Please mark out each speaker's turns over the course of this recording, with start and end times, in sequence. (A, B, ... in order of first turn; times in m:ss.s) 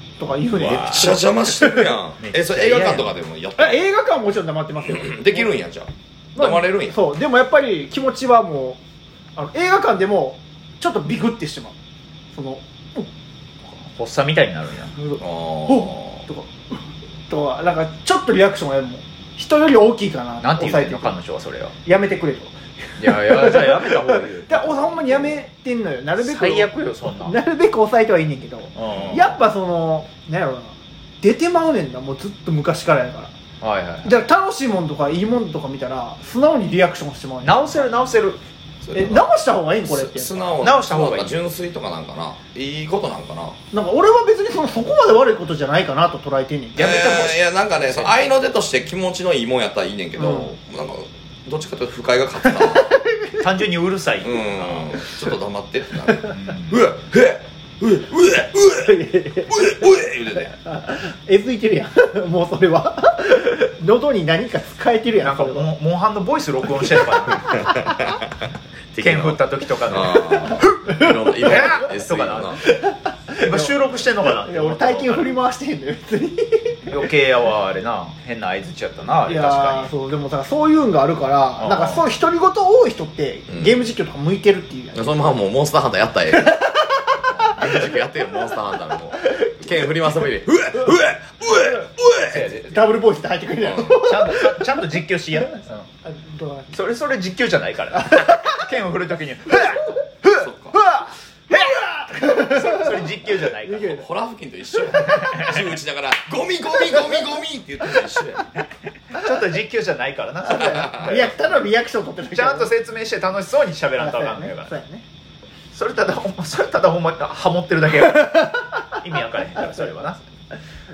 0:00.2-0:02.0 A
0:00.6-0:01.1 B
0:00.6-0:03.8 C
0:02.2-0:03.1 B
0:03.6-0:05.6 A
0:04.8-0:07.0 C
0:06.4-0:08.8 A
0:09.4-0:11.7 A
0:12.3-0:13.1 A
0:13.8-0:14.9 B
0:15.0-0:21.2 A
0:15.2-0:16.2 C
0:20.4-0:21.7 B
0:21.8-0:33.3 A
0:23.0-0:25.4 B
0:26.2-0:27.4 B
0:28.8-0:29.4 B
0:33.6-0:34.2 B
0:34.0-0:37.9 A
0:37.4-0:38.4 B
0:38.8-0:39.3 C
0:38.9-0:40.6 A
0:39.8-0:43.6 C
0:40.6-0:41.4 B
0:43.7-0:47.4 A
0:46.8-0:52.9 C
0:47.8-0:48.2 B
0:50.2-0:50.5 A
0:52.5-0:53.5 A
0:53.4-0:55.0 B
0:54.2-1:00.6 C
0:56.3-0:56.8 B
0:58.8-0:59.7 A
1:00.4-1:05.7 A
1:05.2-1:07.8 B
1:07.6-1:08.2 C
1:08.9-1:12.6 C
1:09.0-1:10.7 B
1:10.4-1:11.1 A
1:11.4-1:12.6 B
1:12.6-1:13.8 A
1:13.4-1:15.4 B
1:14.4-1:17.0 A
1:16.9-1:19.9 B
1:19.3-1:25.4 A
1:21.6-1:22.0 B
1:23.5-1:23.8 C
1:24.9-1:26.7 C
1:26.3-1:27.2 A
1:27.4-1:32.4 C
1:29.2-1:29.5 A
1:32.3-1:33.0 B
1:32.7-1:34.8 A
1:33.6-1:33.9 C
1:34.0-1:35.9 B
1:36.0-1:36.8 A
1:36.7-1:40.0 B
1:38.1-1:38.6 A
1:40.2-1:43.1 A
1:40.4-1:40.8 C
1:42.3-1:44.0 B
1:43.6-1:44.0 A
1:43.9-1:48.5 C
1:45.0-1:45.6 B
1:49.1-1:51.4 B
1:50.4-1:52.8 A
1:50.5-1:51.2 C
1:52.3-1:54.7 B
1:54.0-1:55.0 A
1:55.7-2:00.2 B
1:58.2-1:58.5 A
1:59.6-1:59.9 A